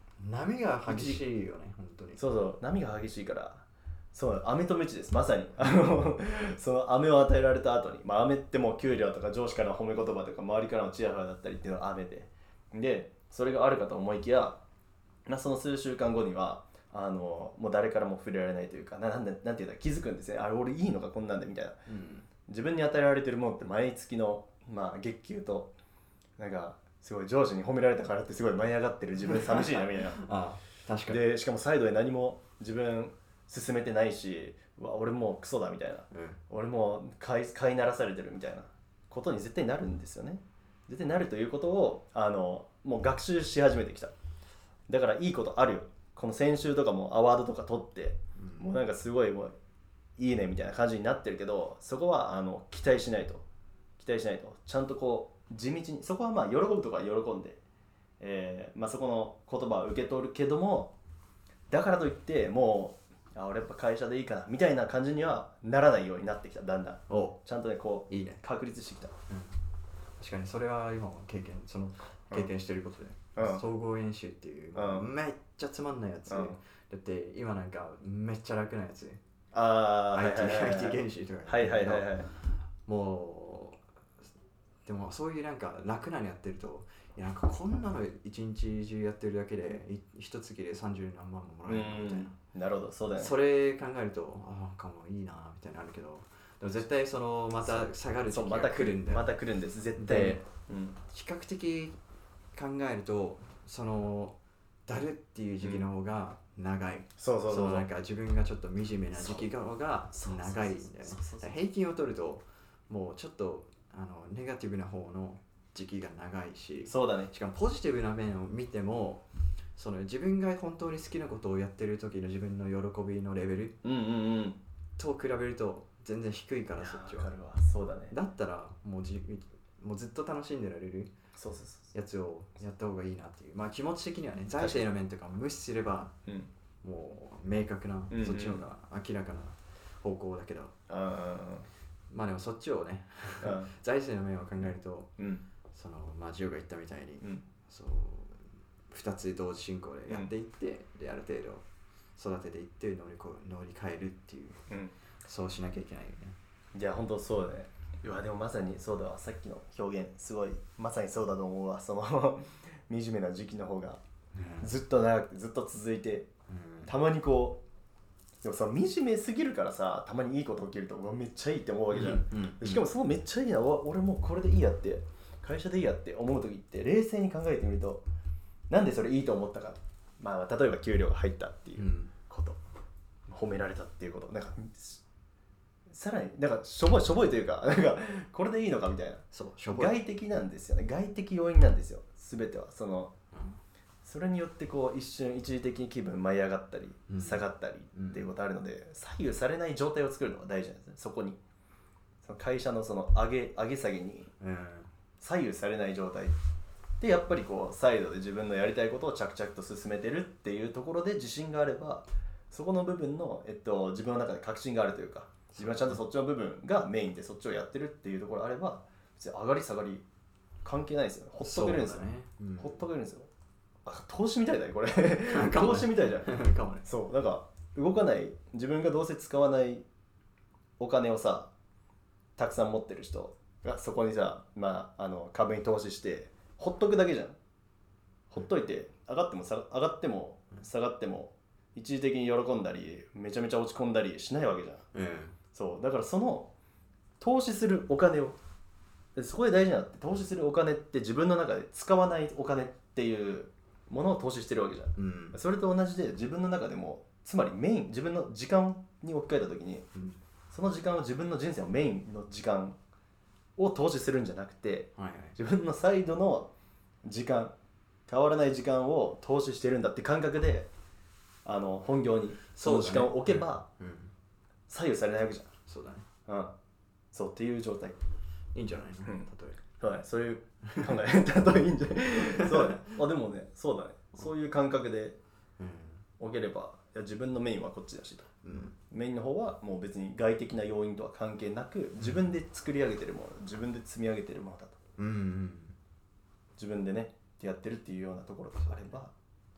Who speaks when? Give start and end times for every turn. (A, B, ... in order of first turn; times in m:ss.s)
0:00.2-0:02.2 A
0:00.8-0:01.2 B
0:02.2-0:14.6 B
0:15.2-0:21.8 B
0:21.9-0:22.2 A
0:22.5-0:25.7 B
0:26.4-0:30.2 B
0:29.2-0:31.2 A
0:31.1-0:44.1 B
0:36.1-0:36.4 A
0:44.9-0:49.5 B
0:48.4-0:48.7 A
0:50.2-0:53.4 B
0:54.0-0:57.6 B
0:58.2-1:00.9 B
1:01.7-1:09.1 B
1:07.1-1:07.4 A
1:08.1-1:08.4 A
1:09.3-1:09.6 A
1:10.2-1:19.2 A
1:13.4-1:13.6 B
1:14.7-1:15.1 B
1:16.3-1:16.6 B
1:19.5-1:22.3 B
1:20.1-1:22.1 A
1:22.8-1:23.8 A
1:24.8-1:32.3 A
1:31.7-1:33.3 B
1:33.1-1:39.3 A
1:37.6-1:41.0 B
1:40.0-1:40.4 A
1:41.1-1:42.0 A
1:42.5-2:03.8 A
1:47.2-1:47.8 B
1:49.2-1:49.5 B
1:50.1-1:51.6 B
1:56.8-1:57.3 B
2:03.8-2:04.6 B
2:05.0-2:07.3 A
2:06.8-2:08.2 B
2:08.1-2:11.1 A
2:11.4-2:11.9 B
2:11.9-2:16.1 A
2:14.6-2:14.8 B
2:16.8-2:20.7 A
2:18.1-2:18.6 B
2:20.9-2:21.7 B
2:22.1-2:25.1 A
2:23.4-2:23.7 B
2:25.2-2:25.4 B
2:25.7-2:34.6 A
2:34.7-2:34.9 B
2:35.2-2:36.4 A
2:36.7-2:44.0 B
2:44.3-2:44.7 A
2:44.6-2:46.3 B
2:46.5-2:46.9 A
2:46.8-2:47.6 B
2:48.4-2:58.0 B
2:51.9-2:52.8 A
2:58.7-3:02.6 B
3:01.8-3:02.1 A
3:03.3-3:05.0 B
3:05.9-3:13.1 B
3:09.3-3:10.0 A
3:13.3-3:13.6 A
3:14.0-3:21.4 B
3:17.1-3:18.3 A
3:22.2-3:24.3 B
3:24.4-3:24.9 A
3:25.2-3:26.4 B
3:27.0-3:40.0 B
3:35.6-3:36.0 A
3:40.6-3:43.3 B
3:41.4-3:42.8 A
3:43.8-3:49.8 B
3:45.3-3:46.8 A
3:50.8-3:51.5 B
3:52.4-3:57.4 B
3:58.3-4:04.8 B
4:04.9-4:05.4 A
4:05.5-4:06.5 B
4:07.2-4:08.4 B
4:09.2-4:19.9 B
4:15.0-4:15.4 A
4:20.5-4:22.8 B
4:23.6-4:26.5 B
4:25.0-4:25.4 A
4:27.0-4:27.5 B
4:28.1-4:30.7 B
4:31.4-4:33.6 B
4:32.5-4:34.1 A
4:34.7-4:35.5 B
4:35.6-4:36.0 A
4:36.3-4:36.5 B
4:37.1-4:38.0 B
4:38.5-4:39.6 A
4:39.8-4:45.2 B
4:40.6-4:41.0 A
4:42.1-4:42.9 A
4:45.6-4:46.0 A
4:46.2-4:48.3 B
4:48.4-4:48.8 A
4:48.9-4:54.8 B
4:55.0-4:55.8 A
4:56.6-4:59.1 B
4:58.6-4:59.0 A